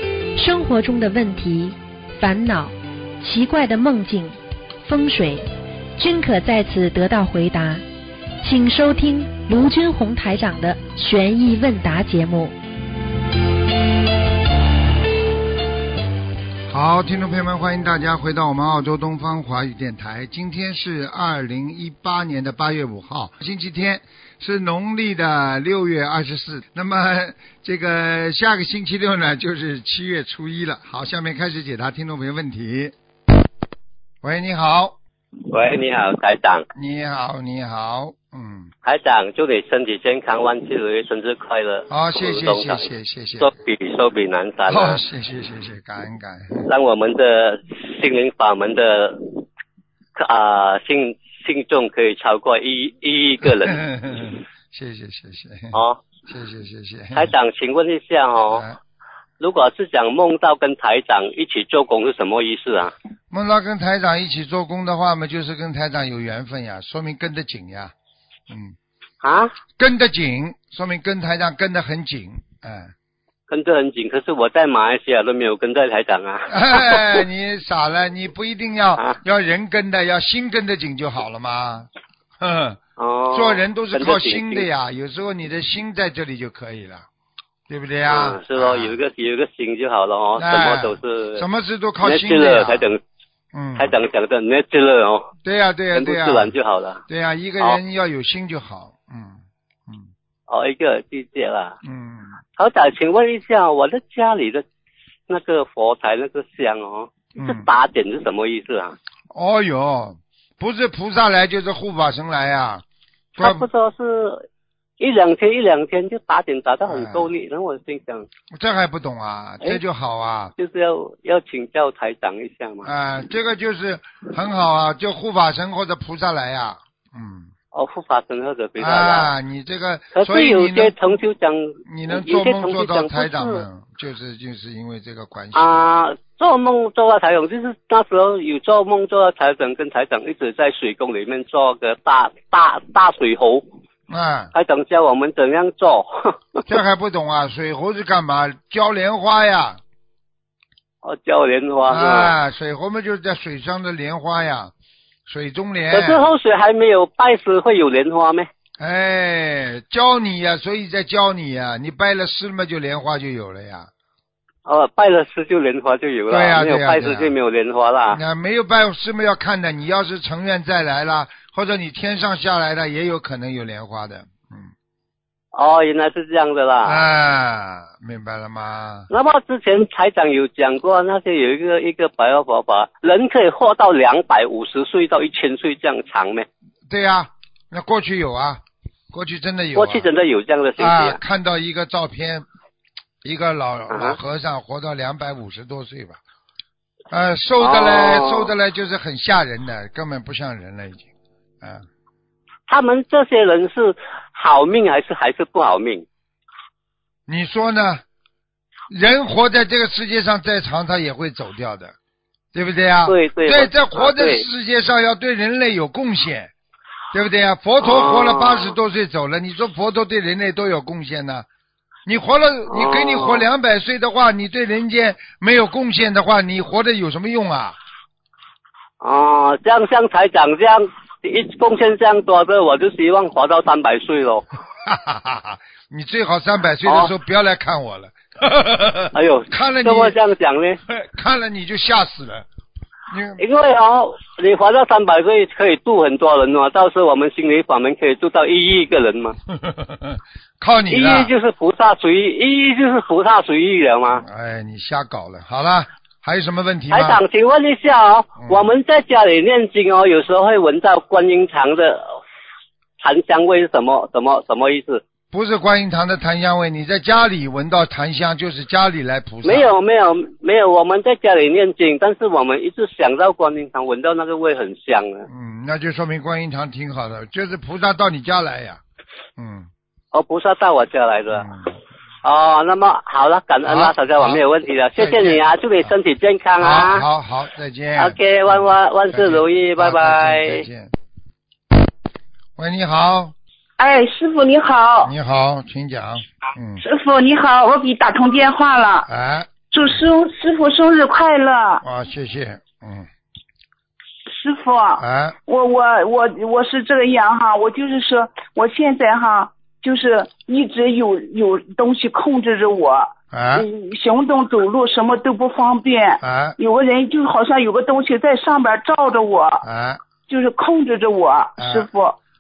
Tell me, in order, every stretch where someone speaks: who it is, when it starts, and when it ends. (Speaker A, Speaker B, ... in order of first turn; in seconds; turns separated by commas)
Speaker A: 0.3-5.5, Speaker A: 6.0-7.8, Speaker A: 8.4-12.6, Speaker B: 16.7-33.0, Speaker B: 34.2-35.0, Speaker C: 35.5-36.6, Speaker B: 36.8-38.7, Speaker C: 38.8-42.9, Speaker B: 41.9-43.5, Speaker C: 43.4-45.0, Speaker B: 44.7-46.7, Speaker C: 46.7-49.4, Speaker C: 50.2-54.3, Speaker B: 53.5-57.3, Speaker C: 55.7-56.0, Speaker C: 57.1-58.6, Speaker B: 58.5-58.8, Speaker C: 59.4-62.9, Speaker B: 63.3-67.9, Speaker B: 68.5-68.8, Speaker C: 69.2-69.5, Speaker B: 69.8-72.9, Speaker C: 73.5-77.2, Speaker B: 76.5-81.9, Speaker B: 82.4-82.8, Speaker C: 83.0-84.7, Speaker B: 83.3-87.1, Speaker B: 87.7-89.0, Speaker C: 88.1-91.5, Speaker B: 90.3-92.9, Speaker C: 92.0-93.0, Speaker B: 93.5-94.0, Speaker C: 93.8-95.3, Speaker B: 95.5-96.5, Speaker C: 95.9-97.0, Speaker B: 97.1-100.1, Speaker C: 100.5-101.8, Speaker B: 101.8-102.4, Speaker C: 102.6-104.6, Speaker C: 105.3-109.0, Speaker B: 107.4-107.7, Speaker B: 109.3-112.8, Speaker C: 113.4-114.5, Speaker B: 113.4-113.7, Speaker C: 115.0-118.3, Speaker B: 116.9-117.3, Speaker B: 118.5-120.5, Speaker C: 120.6-122.9, Speaker B: 122.8-127.5, Speaker C: 127.7-129.3, Speaker B: 128.8-131.2, Speaker C: 130.1-133.7, Speaker B: 131.9-135.9, Speaker C: 135.6-143.7, Speaker B: 144.1-144.5, Speaker C: 144.5-146.6, Speaker B: 146.7-149.8, Speaker C: 151.0-152.3, Speaker B: 151.9-154.7, Speaker B: 155.3-156.2, Speaker C: 155.9-158.5, Speaker B: 158.8-163.9, Speaker C: 164.7-168.2, Speaker B: 166.3-167.3, Speaker B: 168.1-174.7, Speaker C: 175.5-177.1, Speaker B: 176.8-179.1, Speaker C: 179.1-186.5, Speaker B: 186.9-190.1, Speaker C: 189.8-191.2, Speaker B: 190.8-192.5, Speaker B: 193.2-196.2, Speaker C: 193.9-194.2, Speaker B: 197.1-201.1, Speaker C: 197.6-198.5, Speaker C: 202.7-206.1, Speaker B: 207.3-208.0, Speaker B: 208.9-211.9, Speaker B: 212.5-216.5, Speaker C: 213.1-214.4, Speaker B: 217.1-221.5, Speaker C: 217.8-218.8, Speaker B: 222.1-227.8, Speaker C: 222.7-223.4, Speaker C: 229.0-234.5, Speaker B: 234.8-240.2, Speaker C: 236.8-237.1, Speaker C: 239.1-240.8, Speaker B: 240.9-242.5, Speaker B: 243.1-243.4, Speaker C: 243.4-249.4, Speaker B: 249.6-251.3, Speaker C: 250.9-254.2, Speaker B: 254.2-257.2, Speaker C: 256.9-262.2, Speaker B: 258.4-258.7, Speaker C: 263.0-265.0, Speaker B: 265.3-269.7, Speaker C: 269.4-275.3, Speaker B: 275.3-278.8, Speaker B: 279.4-279.7, Speaker C: 280.1-281.5, Speaker B: 281.3-281.7, Speaker C: 282.2-287.1, Speaker B: 283.7-284.4, Speaker B: 285.0-285.9, Speaker B: 286.6-290.9, Speaker C: 288.0-290.7, Speaker B: 292.6-293.4, Speaker D: 293.8-295.1, Speaker B: 295.0-296.8, Speaker D: 296.8-299.1, Speaker B: 299.1-300.0, Speaker D: 299.7-301.8, Speaker B: 301.8-303.1, Speaker D: 304.3-319.6, Speaker B: 305.0-305.4, Speaker B: 313.3-313.7, Speaker B: 316.2-316.6, Speaker B: 319.6-320.0, Speaker D: 320.3-322.2, Speaker B: 321.6-321.9